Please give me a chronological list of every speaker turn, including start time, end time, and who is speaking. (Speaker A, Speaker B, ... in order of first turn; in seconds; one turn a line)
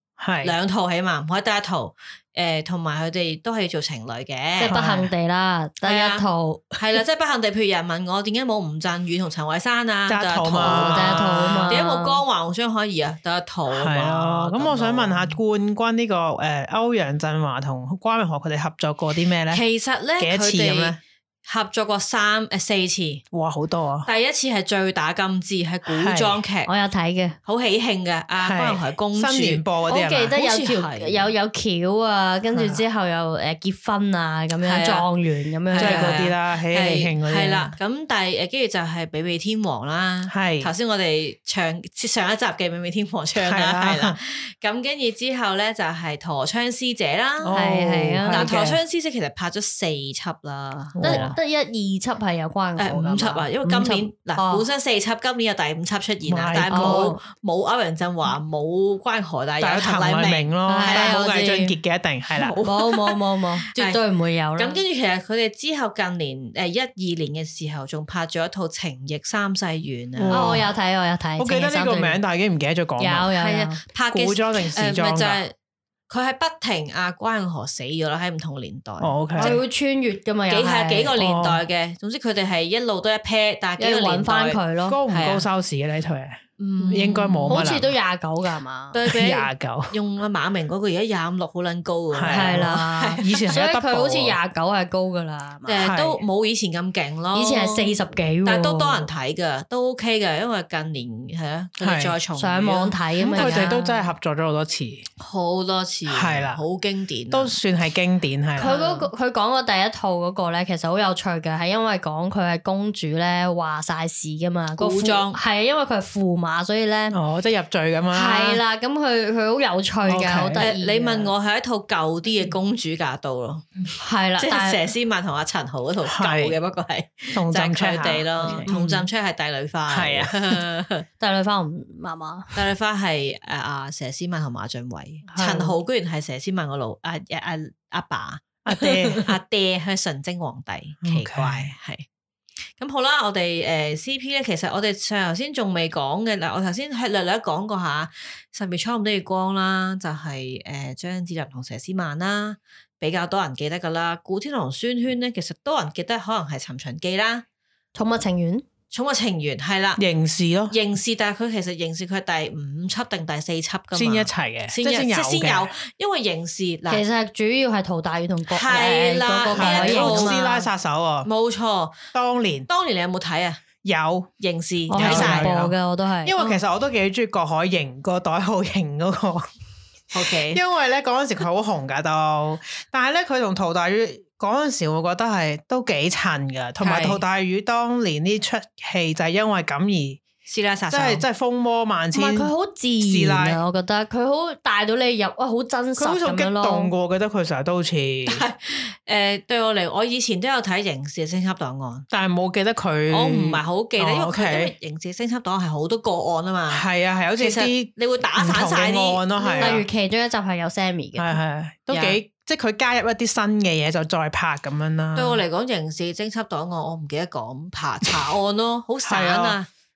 Speaker A: 0.2-0.5
Speaker B: 0.4-4.8
Speaker C: 4.6-6.7
Speaker A: 4.6-5.1
Speaker B: 5.8-15.4
Speaker A: 10.1-11.8
Speaker C: 10.6-12.2
Speaker A: 13.7-19.6
Speaker B: 19.5-23.2
Speaker A: 20.2-21.0
Speaker A: 23.3-24.1
Speaker B: 24.0-26.7
Speaker A: 25.9-26.4
Speaker C: 26.6-27.4
Speaker B: 27.4-29.6
Speaker A: 28.4-30.4
Speaker C: 29.9-36.2
Speaker B: 30.3-31.3
Speaker A: 32.5-32.8
Speaker B: 34.6-35.0
Speaker B: 35.7-47.6
Speaker A: 35.8-37.8
Speaker A: 40.3-40.7
Speaker A: 43.4-44.2
Speaker A: 47.4-48.8
Speaker C: 47.5-48.5
Speaker B: 48.3-51.4
Speaker A: 50.9-51.4
Speaker C: 51.0-54.6
Speaker B: 52.8-61.2
Speaker A: 56.2-57.2
Speaker C: 56.7-57.2
Speaker A: 59.6-62.6
Speaker C: 60.7-61.7
Speaker B: 62.3-63.2
Speaker C: 62.6-64.8
Speaker B: 63.7-64.0
Speaker B: 64.5-70.6
Speaker A: 70.1-70.7
Speaker C: 70.3-72.2
Speaker A: 71.4-73.3
Speaker C: 73.0-73.8
Speaker B: 73.3-75.5
Speaker A: 74.1-75.4
Speaker B: 76.1-79.6
Speaker A: 79.0-79.6
Speaker C: 79.4-81.1
Speaker B: 80.5-85.5
Speaker A: 81.1-81.6
Speaker C: 83.8-85.0
Speaker A: 84.9-87.9
Speaker B: 86.6-87.7
Speaker C: 86.8-89.0
Speaker B: 88.9-93.4
Speaker A: 89.0-89.9
Speaker A: 92.1-94.3
Speaker C: 92.3-95.9
Speaker B: 95.7-103.7
Speaker A: 95.8-96.2
Speaker C: 97.3-99.1
Speaker A: 101.8-102.1
Speaker C: 102.3-104.1
Speaker A: 103.2-105.0
Speaker B: 105.2-107.6
Speaker A: 106.1-106.6
Speaker A: 107.3-108.8
Speaker C: 108.6-117.2
Speaker B: 108.6-109.1
Speaker B: 114.8-115.4
Speaker A: 117.1-118.6
Speaker C: 118.1-121.3
Speaker A: 120.0-120.7
Speaker B: 120.5-123.7
Speaker C: 124.0-124.8
Speaker B: 124.4-131.1
Speaker A: 126.1-126.5
Speaker A: 127.3-129.1
Speaker C: 128.7-128.9
Speaker A: 129.9-130.6
Speaker C: 131.2-132.6
Speaker B: 132.5-142.1
Speaker C: 135.3-135.8
Speaker A: 138.6-139.2
Speaker A: 141.0-141.7
Speaker B: 142.8-157.4
Speaker C: 157.9-158.7
Speaker B: 158.9-160.0
Speaker A: 159.9-160.8
Speaker B: 160.7-167.0
Speaker A: 163.9-165.7
Speaker C: 166.9-170.6
Speaker B: 168.5-170.4
Speaker A: 169.5-171.3
Speaker B: 171.2-172.0
Speaker A: 172.1-172.7
Speaker B: 172.7-173.6
Speaker A: 173.8-174.3
Speaker B: 174.4-175.5
Speaker C: 174.9-176.3
Speaker A: 174.9-179.5
Speaker B: 180.1-180.6
Speaker A: 180.5-190.2
Speaker B: 186.8-187.2
Speaker B: 190.4-191.2
Speaker A: 190.9-193.6
Speaker C: 192.1-196.9
Speaker A: 196.0-198.4
Speaker B: 198.3-202.1
Speaker A: 202.1-204.7
Speaker B: 203.1-206.8
Speaker A: 206.7-209.8
Speaker B: 207.4-209.8
Speaker C: 209.6-211.3
Speaker A: 211.2-215.4
Speaker B: 211.9-212.2
Speaker B: 215.2-219.7
Speaker A: 219.0-219.6